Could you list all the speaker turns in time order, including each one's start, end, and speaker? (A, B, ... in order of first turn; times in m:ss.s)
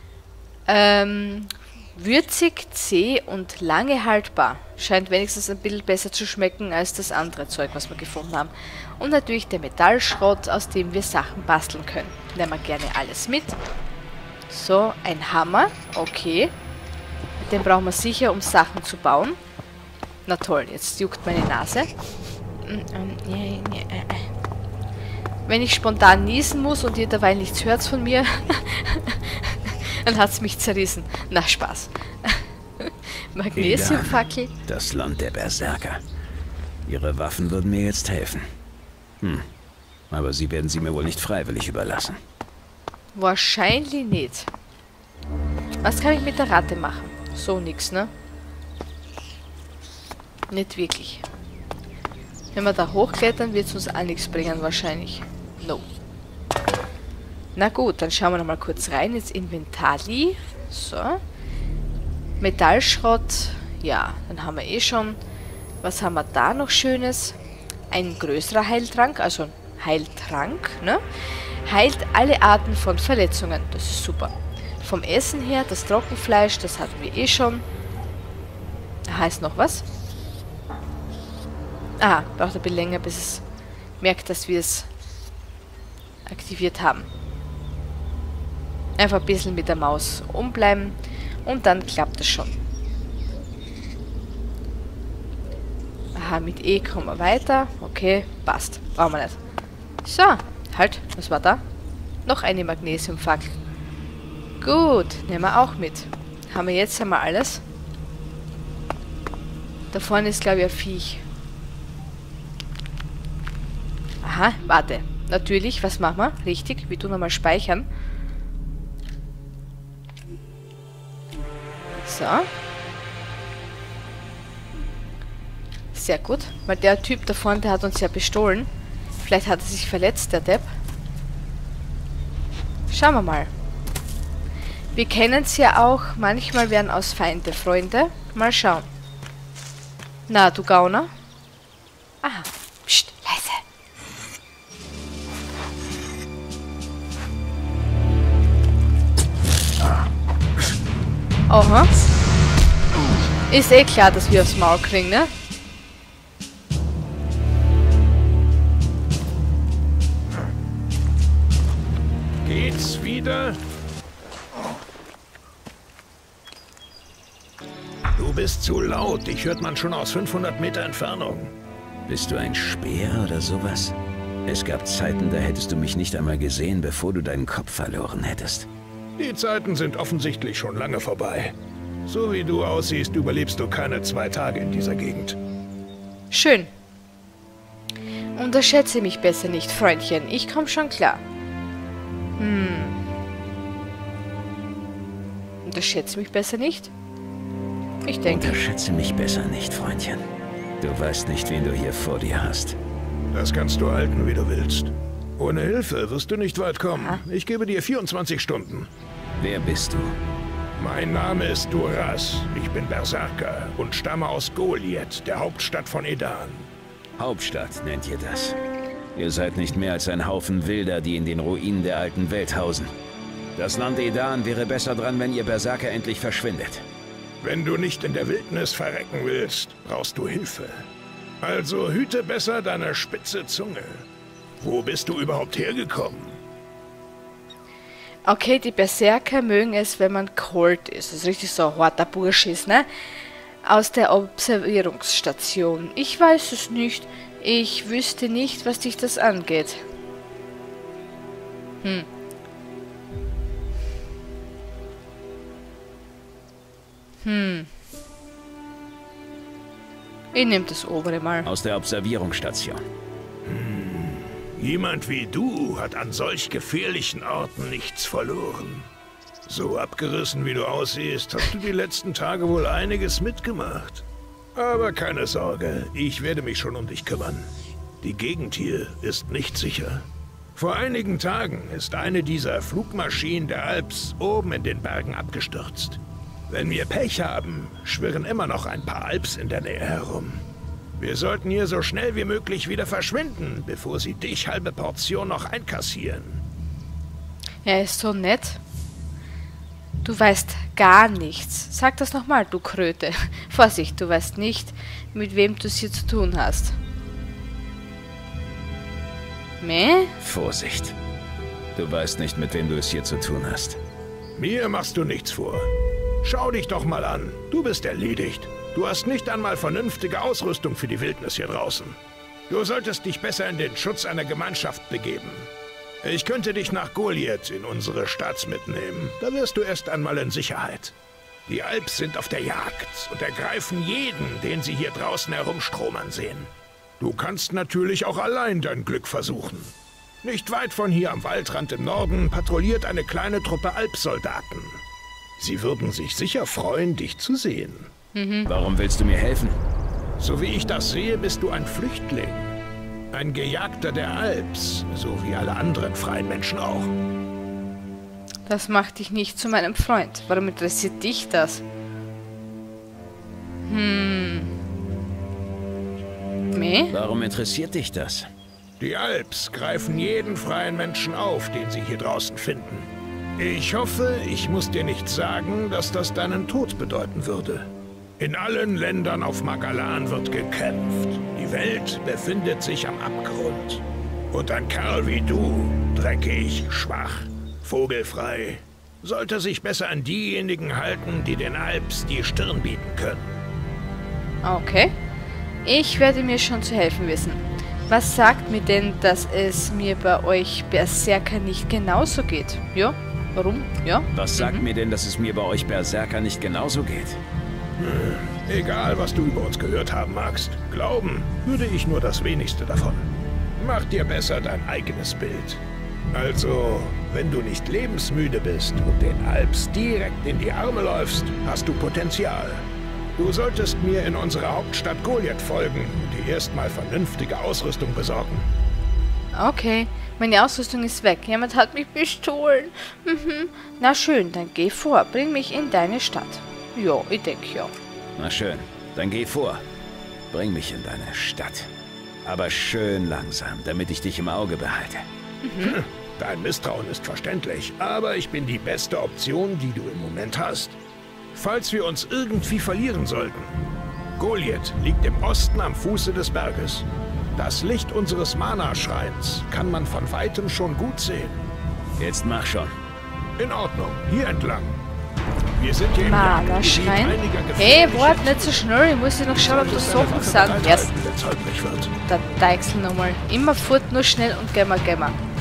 0:00.7-0:13.6 A
0:14.5-0:16.5 A
0:17.4-0:19.4 A
0:20.3-0:21.9 A
0:22.6-0:24.3 A
0:25.5-0:34.5 A
0:33.6-0:36.0 B
0:36.9-0:38.4 B
0:39.2-0:39.5 B
0:40.1-0:42.2 B
0:43.2-0:44.5 A
0:45.8-0:48.1 A
0:50.5-0:51.2 A
0:52.6-0:55.9 A
0:57.6-1:01.2 A
1:02.4-1:05.2 A
1:05.8-1:07.4 A
1:07.9-1:11.0 A
1:11.6-1:17.6 A
1:19.1-1:19.8 A
1:22.0-1:23.4 A
1:24.0-1:24.9 A
1:26.3-1:27.1 A
1:29.0-1:32.5 A
1:36.2-1:39.4 A
1:40.0-1:41.6 A
1:42.3-1:43.5 A
1:44.6-1:47.6 A
1:49.9-1:51.2 A
1:54.2-1:57.9 A
2:02.0-2:02.5 A
2:05.9-2:08.7 A
2:09.2-2:10.7 A
2:12.9-2:13.5 A
2:15.0-2:18.9 A
2:20.3-2:21.1 A
2:22.2-2:23.6 A
2:31.5-2:31.9 A
2:33.5-2:35.3 A
2:42.4-2:43.6 C
2:48.2-2:51.5 C
2:52.1-2:58.7 B
2:59.2-3:01.6 C
3:02.1-3:05.4 C
3:06.3-3:06.7 A
3:08.4-3:11.2 A
3:12.4-3:13.0 A
3:15.6-3:16.9 A
3:18.0-3:18.6 A
3:18.3-3:20.2 B
3:20.8-3:22.8 B
3:23.3-3:28.9 C
3:26.9-3:27.2 A
3:29.4-3:30.1 B
3:30.8-3:36.7 C
3:37.2-3:38.6 B
3:39.2-3:42.9 B
3:43.6-3:46.8 B
3:47.4-3:50.9 C
3:51.4-3:54.0 C
3:54.6-3:56.4 C
3:58.3-4:02.9 A
4:03.6-4:09.8 A
4:17.2-4:17.7 A
4:20.3-4:21.5 A
4:21.4-4:22.8 B
4:23.5-4:28.9 C
4:29.5-4:34.0 C
4:34.6-4:37.5 C
4:38.0-4:50.4 C
4:51.0-4:56.4 C
4:57.6-4:58.6 A
5:00.0-5:06.8 A
5:09.6-5:10.1 A
5:10.2-5:11.0 B
5:11.8-5:13.8 B
5:14.4-5:15.7 C
5:16.2-5:22.0 C
5:22.5-5:25.5 C
5:26.0-5:30.9 C
5:31.5-5:44.8 C
5:45.4-5:47.9 C
5:48.2-5:48.5 A
5:48.5-5:49.6 B
5:50.2-5:52.5 C
5:53.1-5:56.9 C
5:58.5-6:01.6 A
6:03.6-6:04.5 A
6:06.5-6:06.9 A
6:06.9-6:08.3 B
6:08.8-6:33.4 C
6:34.4-6:34.9 A
6:35.6-6:44.6 A
6:44.1-6:47.2 B
6:47.8-6:55.6 C
6:56.1-7:02.7 C
7:03.2-7:08.5 C
7:09.3-7:17.7 A
7:18.2-7:19.6 B
7:20.3-7:21.7 B
7:22.2-7:25.0 B
7:25.4-7:25.8 A
7:25.6-7:30.8 C
7:31.3-7:33.6 C
7:34.2-7:41.4 C
7:42.0-7:42.7 B
7:43.4-7:44.8 C
7:45.6-7:48.6 C
7:46.0-7:50.9 A
7:49.3-7:51.9 C
7:52.1-7:55.2 A